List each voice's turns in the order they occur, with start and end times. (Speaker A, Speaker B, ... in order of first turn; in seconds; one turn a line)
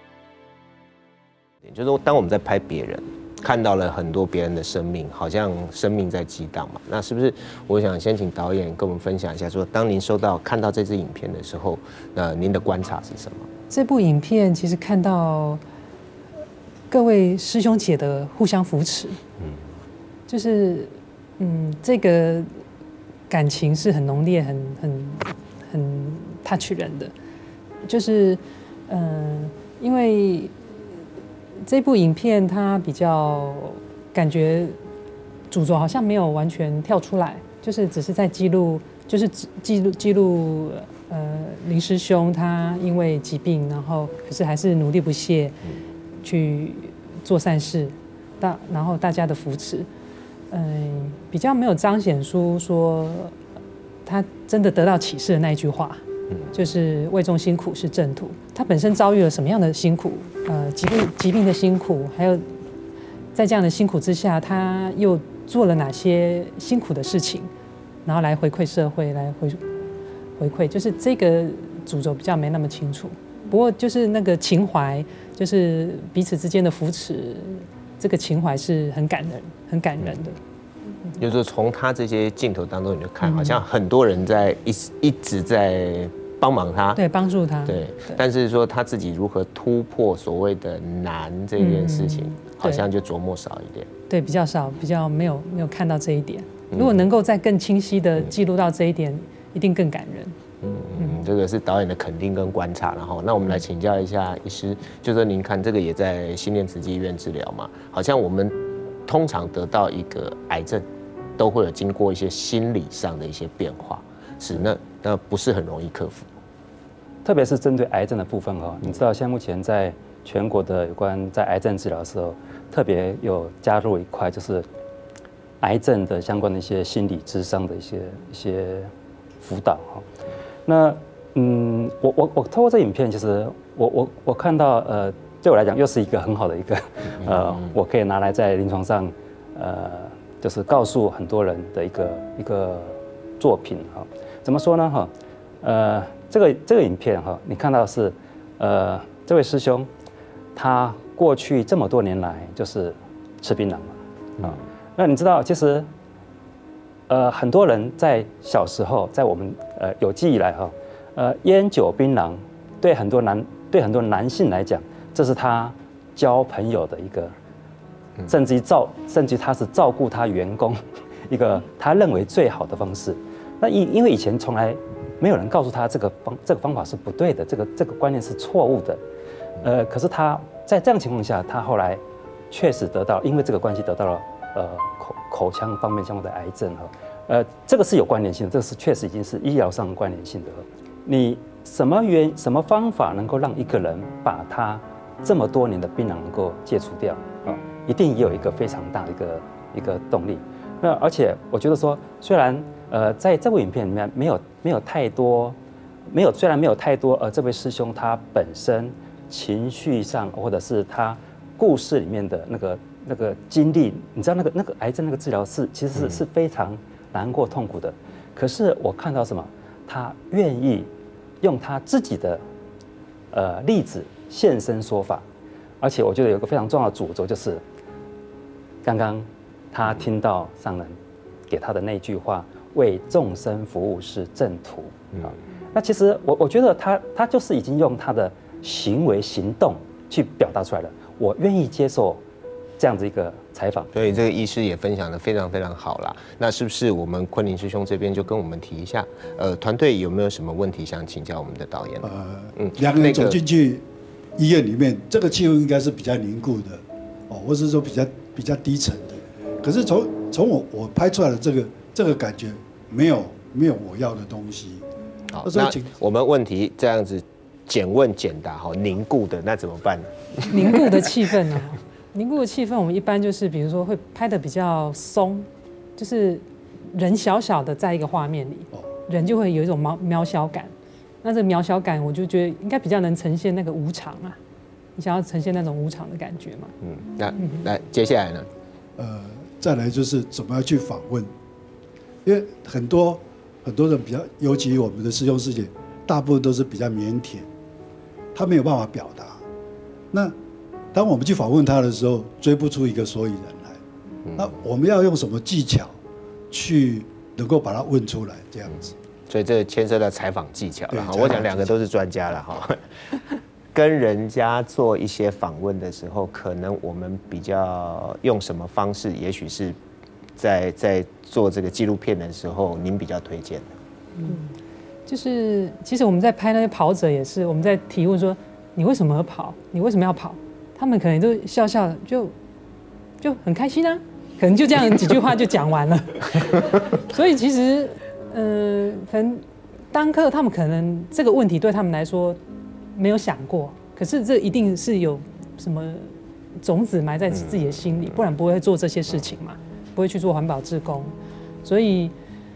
Speaker A: 1.6-13.5
Speaker B: 13.7-15.6
Speaker B: 16.9-19.2
Speaker A: 19.4-19.7
Speaker B: 20.3-22.6
Speaker B: 23.3-27.1
Speaker B: 27.9-30.5
Speaker B: 31.7-34.8
Speaker B: 35.5-45.6
Speaker B: 46.2-49.9
Speaker B: 50.5-53.4
Speaker B: 54.0-56.0
Speaker B: 56.5-62.5
Speaker B: 63.3-67.5
Speaker B: 68.0-69.6
Speaker B: 70.4-80.4
Speaker A: 80.0-80.3
Speaker A: 81.2-87.0
Speaker B: 83.2-83.6
Speaker B: 87.0-88.2
Speaker A: 87.7-93.9
Speaker B: 91.6-92.9
Speaker B: 94.1-100.3
Speaker A: 96.7-97.0
Speaker A: 100.6-110.9
Speaker A: 111.4-116.3
Speaker C: 117.2-124.7
Speaker C: 125.6-130.1
Speaker C: 130.7-145.1
Speaker A: 137.2-137.7
Speaker C: 145.6-149.9
Speaker C: 150.6-155.9
Speaker C: 157.1-167.3
Speaker C: 168.3-179.0
Speaker C: 179.6-205.6
Speaker C: 206.1-220.9
Speaker C: 221.4-222.4
Speaker C: 223.3-225.2
Speaker C: 225.8-227.6
Speaker C: 228.8-231.0
Speaker C: 231.5-242.2
Speaker C: 242.8-243.9
Speaker A: 243.9-253.4
Speaker D: 252.0-253.8
Speaker D: 254.4-264.8
Speaker A: 265.3-271.1
Speaker D: 265.4-265.9
Speaker B: 270.5-284.4
Speaker B: 285.0-286.7
Speaker A: 286.8-288.5
Speaker B: 287.4-287.6
Speaker D: 289.0-291.3
Speaker D: 292.2-297.5
Speaker D: 298.3-299.4
Speaker D: 300.9-303.8
Speaker A: 304.3-304.5
Speaker D: 304.4-305.9
Speaker D: 306.5-308.9
Speaker A: 309.3-312.8
Speaker D: 310.9-311.7
Speaker A: 313.7-319.8
Speaker A: 320.4-323.7
Speaker B: 324.2-324.6
Speaker B: 325.1-332.4
Speaker B: 333.2-342.4
Speaker B: 342.9-352.1
Speaker A: 347.3-348.2